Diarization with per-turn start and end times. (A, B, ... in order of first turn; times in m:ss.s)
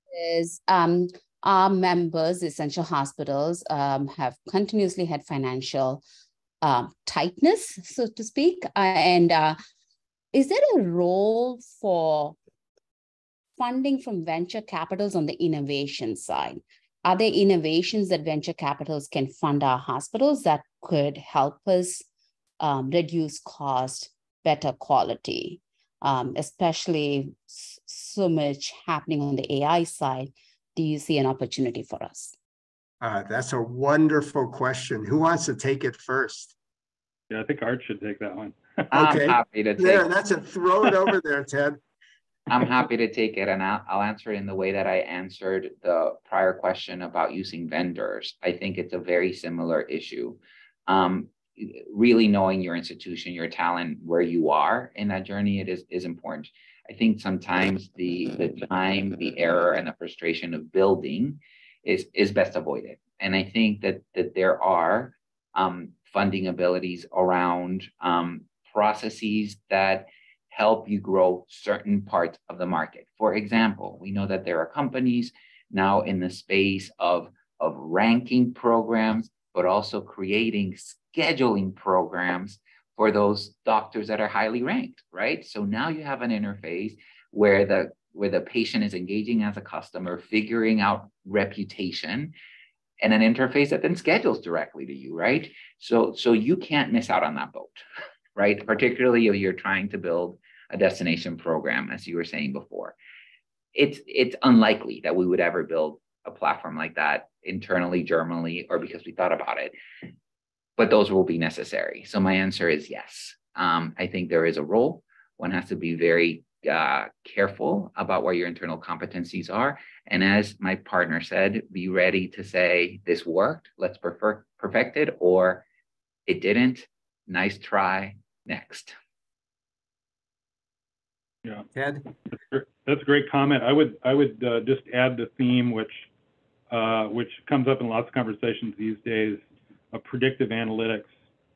0:00.1-0:06.0 A
0:06.6-0:09.6 A
0:10.3-0:12.4 A
0:13.6-0:22.0 A
0:22.6-0:32.3 A
0:33.0-0:36.5 B
0:37.3-0:38.6 C
0:38.9-0:40.0 D
0:38.9-0:41.8 B
0:42.5-1:32.3 D
1:33.0-1:37.8 D
1:38.4-1:42.9 D
1:43.7-1:49.7 D
1:50.8-2:05.6 D
2:06.3-2:08.9 D
2:11.7-2:12.1 B
2:12.3-2:16.0 C
2:16.7-2:19.4 C
2:19.9-2:21.1 C